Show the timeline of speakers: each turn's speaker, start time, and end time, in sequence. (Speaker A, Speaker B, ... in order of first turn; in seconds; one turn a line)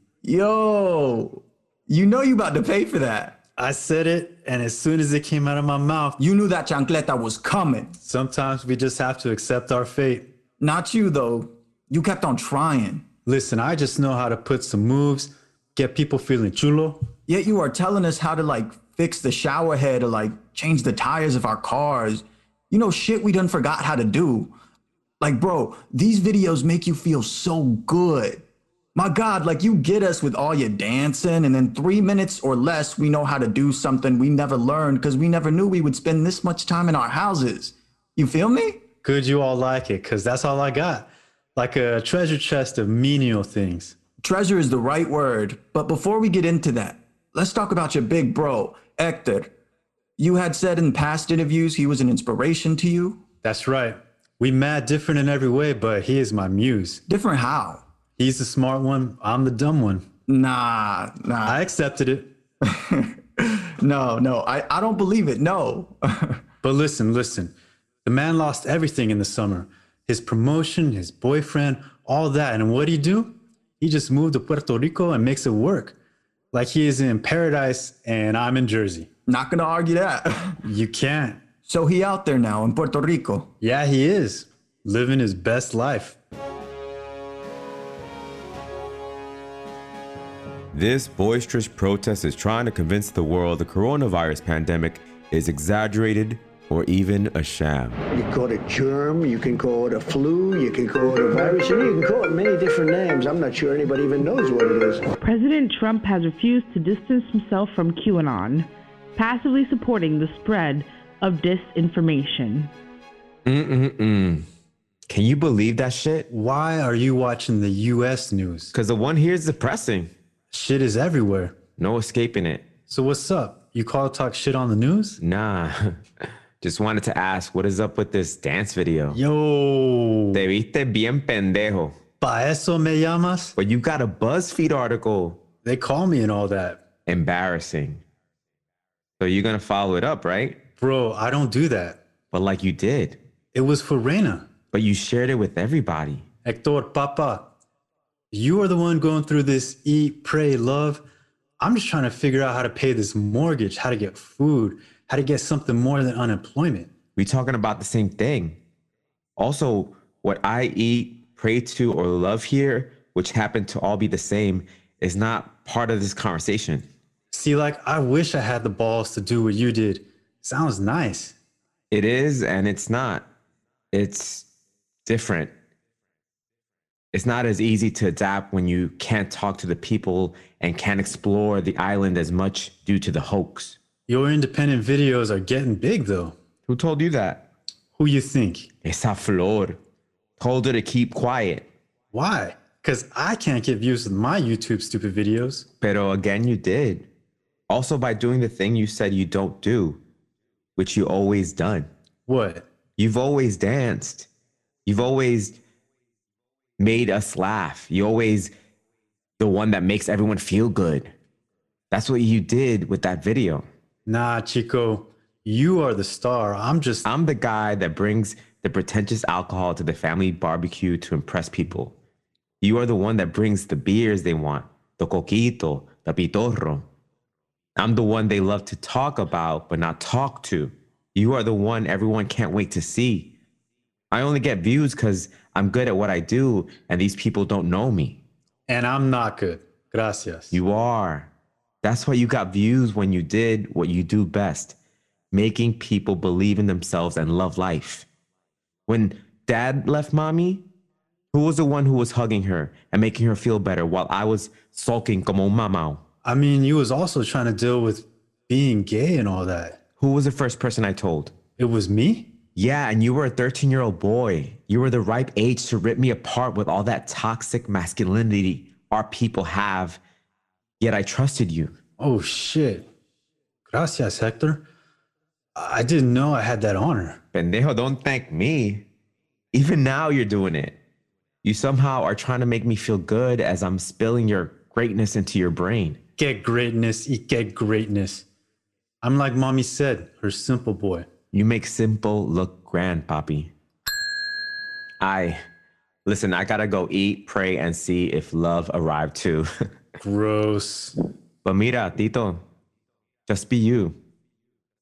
Speaker A: 0.2-3.4
Speaker B: 3.6-6.2
Speaker A: 6.2-8.0
Speaker B: 8.0-10.2
Speaker A: 10.6-13.0
Speaker B: 13.2-17.0
Speaker A: 17.3-24.5
Speaker A: 25.2-28.4
Speaker A: 28.9-38.8
Speaker B: 39.0-44.0
Speaker A: 44.2-49.5
Speaker A: 50.2-53.2
Speaker B: 53.4-57.0
Speaker A: 57.1-57.8
Speaker B: 58.2-60.0
Speaker A: 60.3-61.6
Speaker B: 61.5-62.3
Speaker A: 62.6-66.4
Speaker B: 66.6-67.5
Speaker B: 68.0-75.9
Speaker B: 76.5-79.1
Speaker A: 79.3-80.6
Speaker B: 80.6-81.4
Speaker A: 81.6-83.5
Speaker B: 83.6-86.2
Speaker C: 90.7-98.0
Speaker D: 98.1-105.0
Speaker E: 105.2-112.7
Speaker C: 113.4-114.5
Speaker C: 115.1-116.3
Speaker B: 116.3-118.7
Speaker C: 118.7-120.1
Speaker B: 120.5-121.5
Speaker C: 121.8-122.6
Speaker B: 122.9-125.2
Speaker C: 125.2-126.0
Speaker C: 126.6-129.2
Speaker B: 129.1-130.4
Speaker C: 130.3-131.9
Speaker B: 132.2-133.6
Speaker C: 133.6-135.4
Speaker B: 135.6-136.8
Speaker C: 137.1-138.0
Speaker C: 139.2-140.6
Speaker B: 140.8-142.0
Speaker C: 142.3-143.2
Speaker B: 143.5-144.5
Speaker C: 144.7-146.2
Speaker B: 146.4-147.5
Speaker B: 148.3-151.0
Speaker B: 151.6-156.9
Speaker C: 157.2-158.6
Speaker C: 159.4-166.8
Speaker B: 167.3-171.3
Speaker C: 171.9-173.2
Speaker C: 173.9-174.4
Speaker C: 175.1-175.5
Speaker C: 177.1-183.8
Speaker B: 184.1-186.3
Speaker C: 186.7-187.4
Speaker B: 187.9-188.7
Speaker C: 188.8-189.8
Speaker C: 190.4-191.7
Speaker B: 192.1-195.6
Speaker C: 195.8-197.1
Speaker C: 197.7-200.0
Speaker C: 200.8-201.9
Speaker B: 202.3-202.7
Speaker C: 203.0-204.3
Speaker C: 204.8-205.6
Speaker C: 206.8-208.5
Speaker C: 209.4-211.1
Speaker C: 211.9-213.7
Speaker B: 214.1-217.1
Speaker C: 217.0-221.9
Speaker C: 222.6-226.8
Speaker C: 227.8-233.3
Speaker C: 234.1-238.2
Speaker B: 238.7-240.6
Speaker C: 240.5-241.3
Speaker C: 241.8-244.7
Speaker C: 245.3-248.1
Speaker C: 248.9-250.6
Speaker C: 251.3-256.0
Speaker B: 256.2-259.8
Speaker C: 260.0-261.3
Speaker B: 261.6-262.3
Speaker C: 262.6-270.0
Speaker C: 270.8-271.7
Speaker B: 272.0-272.8
Speaker B: 273.7-274.6
Speaker B: 275.6-277.2
Speaker C: 277.3-278.8
Speaker C: 279.5-280.7
Speaker C: 281.4-286.0
Speaker B: 286.2-288.2
Speaker B: 289.0-291.1
Speaker C: 291.3-293.5
Speaker C: 295.0-295.4
Speaker C: 296.0-299.5
Speaker B: 300.0-300.9
Speaker C: 301.4-302.4
Speaker C: 303.3-303.9